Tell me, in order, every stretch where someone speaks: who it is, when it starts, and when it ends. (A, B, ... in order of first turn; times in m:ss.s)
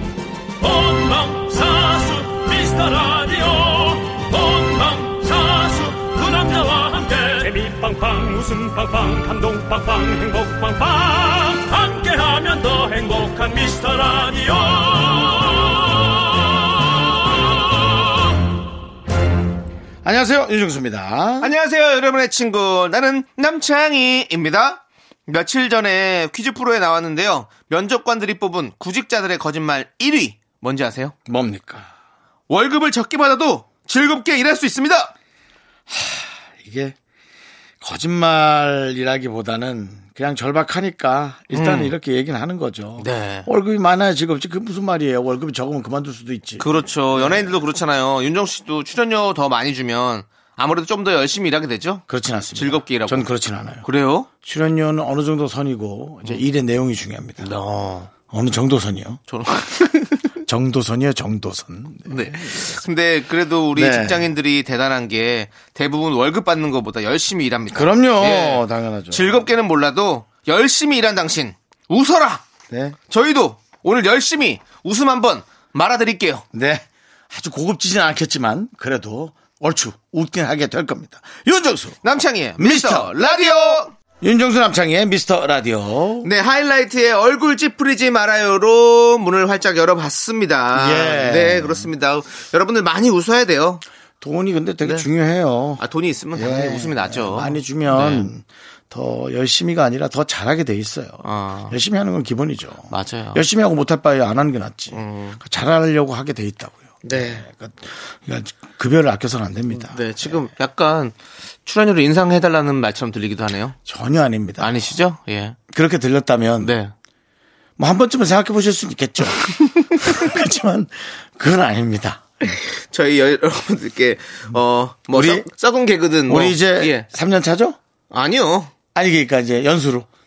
0:00.6-0:18.0 A
0:20.0-0:21.5 B
0:21.4-0:31.1 C
0:31.3-0:31.9 B
0:32.5-0:35.1 C
0:35.9-0:37.0 B
0:37.8-0:47.5 B
0:41.5-0:41.9 C
0:43.0-0:43.5 C
0:46.6-0:53.3 C
0:52.1-0:53.8 B
0:53.8-0:54.3 C
0:54.4-0:57.5 B
0:57.4-0:58.1 C
0:58.2-0:59.2 B
0:59.3-1:00.4 C
1:00.4-1:02.8 B
1:02.1-1:12.5 C
1:03.7-1:04.2 B
1:07.7-1:09.4 B
1:12.7-1:13.0 B
1:13.1-1:16.4 C
1:16.5-1:22.0 B
1:22.0-1:23.9 C
1:22.6-1:26.3 B
1:26.2-1:33.8 C
1:30.7-1:31.9 B
1:34.2-1:35.8 B
1:35.8-1:38.3 C
1:36.3-1:50.4 B
1:41.2-1:41.8 C
1:42.9-1:43.4 C
1:44.9-1:45.4 C
1:47.0-1:47.4 C
1:49.7-1:53.8 C
1:53.8-1:54.8 B
1:54.6-1:55.6 C
1:55.7-1:56.7 B
1:56.6-1:56.9 C
1:57.8-2:02.2 B
1:59.6-2:00.2 C
2:02.4-2:07.1 C
2:05.1-2:05.5 B
2:06.3-2:07.8 B
2:08.1-2:08.7 C
2:08.9-2:10.1 B